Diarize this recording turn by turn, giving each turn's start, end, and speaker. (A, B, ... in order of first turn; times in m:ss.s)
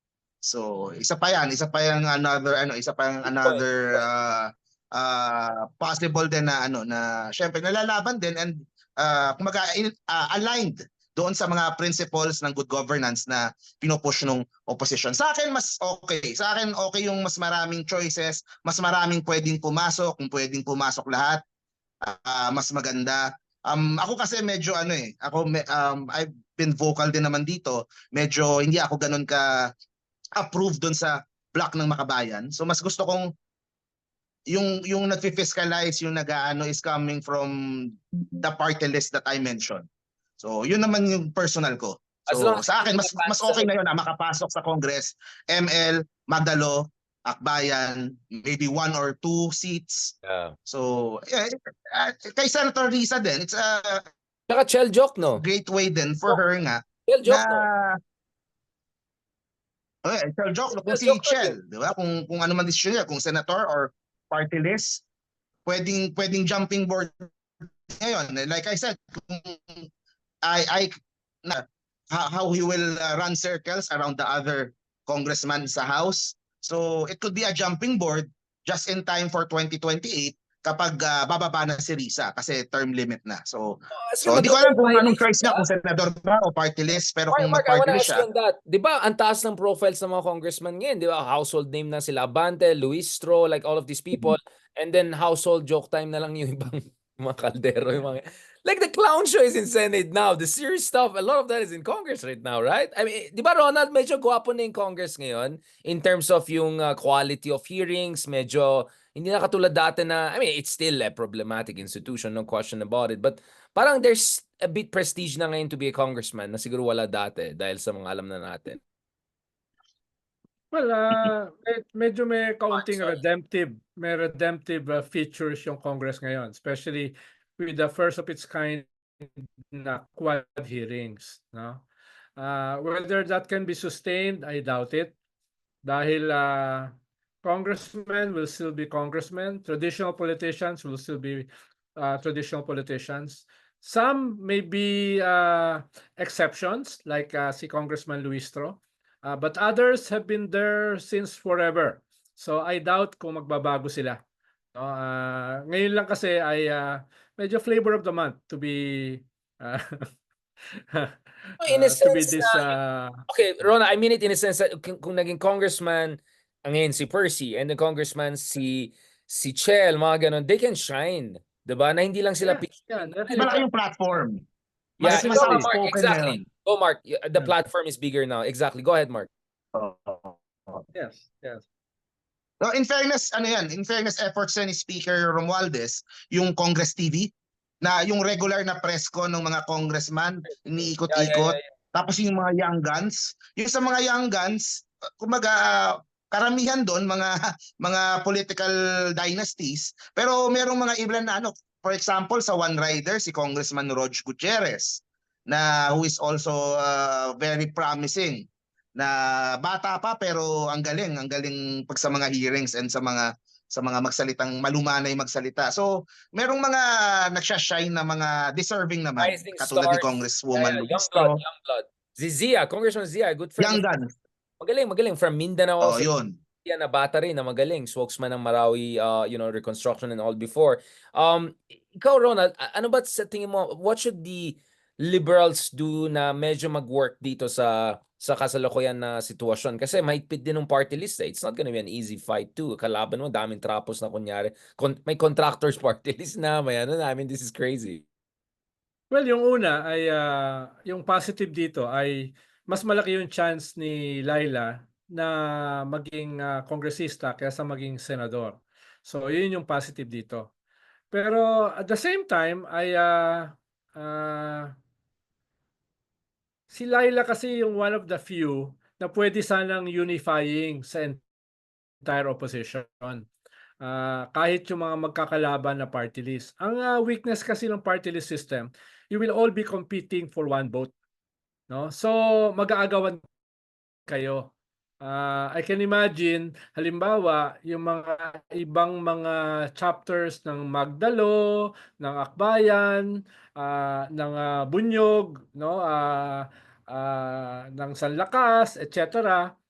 0:00.4-0:21.4 A
0:03.2-0:04.0 B
0:22.0-0:29.7 A
0:30.4-0:33.3 A
0:34.5-0:39.8 A
0:40.4-0:50.1 A
0:42.3-0:43.7 B
0:50.2-0:50.5 B
0:50.7-0:54.0 A
0:54.5-0:55.4 B
0:55.4-0:58.0 A
0:57.1-0:57.7 B
1:00.0-1:05.0 A
1:00.8-1:01.6 B
1:05.7-1:07.1 A
1:08.0-1:09.9 A
1:10.5-1:10.9 A
1:11.4-1:28.3 A
1:23.9-1:25.6 B
1:27.3-1:58.8 B
2:00.7-2:11.8 C
2:02.7-2:03.2 B
2:12.4-2:15.1 C
2:15.8-2:34.2 C
2:34.8-2:39.8 C
2:40.9-2:43.2 C
2:41.6-2:42.7 B
2:43.3-2:53.5 B
2:52.4-2:53.7 C
2:53.3-2:54.4 A
2:55.0-2:55.7 C
2:55.0-2:56.4 A
2:55.0-2:59.3 B
2:59.8-3:00.8 A
3:00.9-3:01.6 C
3:02.6-3:07.3 A
3:07.8-3:28.4 A
3:10.5-3:11.7 B
3:29.0-3:41.4 A
3:39.2-3:43.9 B
3:43.6-3:44.1 A
3:44.6-3:46.1 B
3:45.8-3:46.4 A
3:46.6-4:08.0 B
4:09.1-4:12.2 C
4:12.7-4:15.3 C
4:15.9-4:20.5 C
4:21.1-4:24.8 C
4:26.7-4:31.2 C
4:32.0-4:33.2 C
4:33.8-4:40.9 C
4:41.7-4:43.2 C
4:44.1-4:44.5 C
4:45.0-4:53.0 C
4:53.6-4:59.4 C